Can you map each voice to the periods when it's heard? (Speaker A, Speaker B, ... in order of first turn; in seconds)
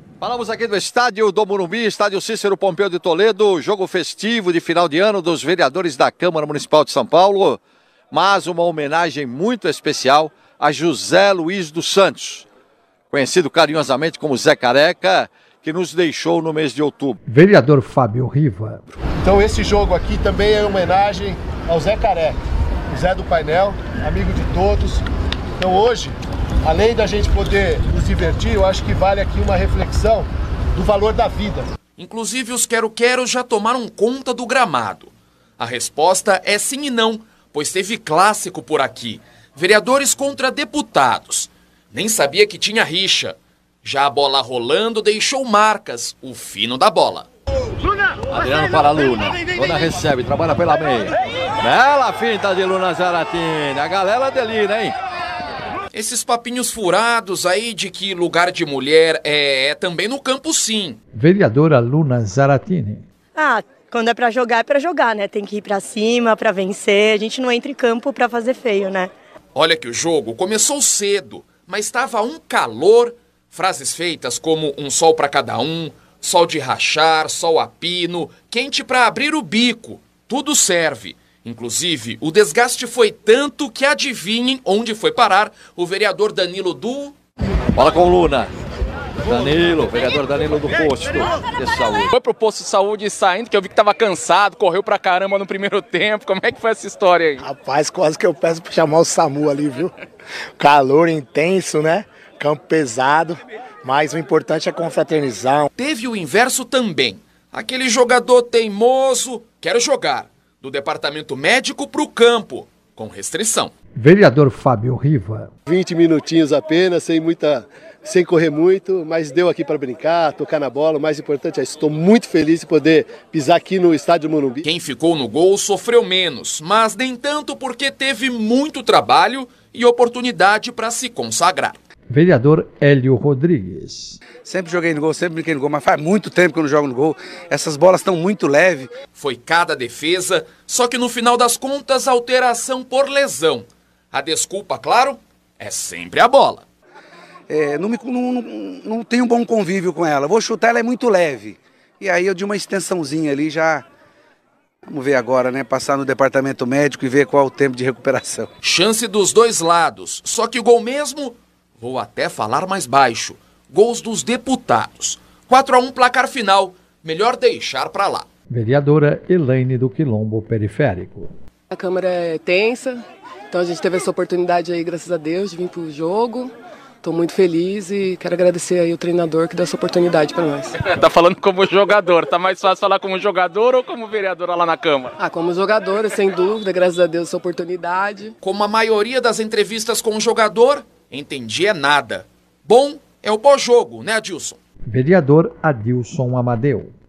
Speaker A: 0.2-7.6, 8.1-12.4, 13.1-17.2, 48.3-54.9, 87.7-88.5, 89.3-92.1
Speaker B: 17.2-18.8, 61.1-63.0, 114.0-115.5, 132.1-134.2, 168.5-171.3, 194.9-196.9
Speaker C: 19.2-22.4, 22.9-25.0, 25.6-31.7, 115.7-124.6
Speaker D: 32.0-47.3, 55.9-61.0, 69.5-87.1, 105.8-113.7, 124.6-131.8, 139.1-146.6, 158.6-168.3, 188.4-194.6
Speaker E: 63.4-69.1
Speaker F: 92.1-97.4, 180.9-185.1
Speaker G: 97.4-99.9, 100.6-105.7
Speaker H: 134.4-138.9, 147.5-153.8, 154.9-158.5
Speaker I: 171.7-180.7, 185.2-188.3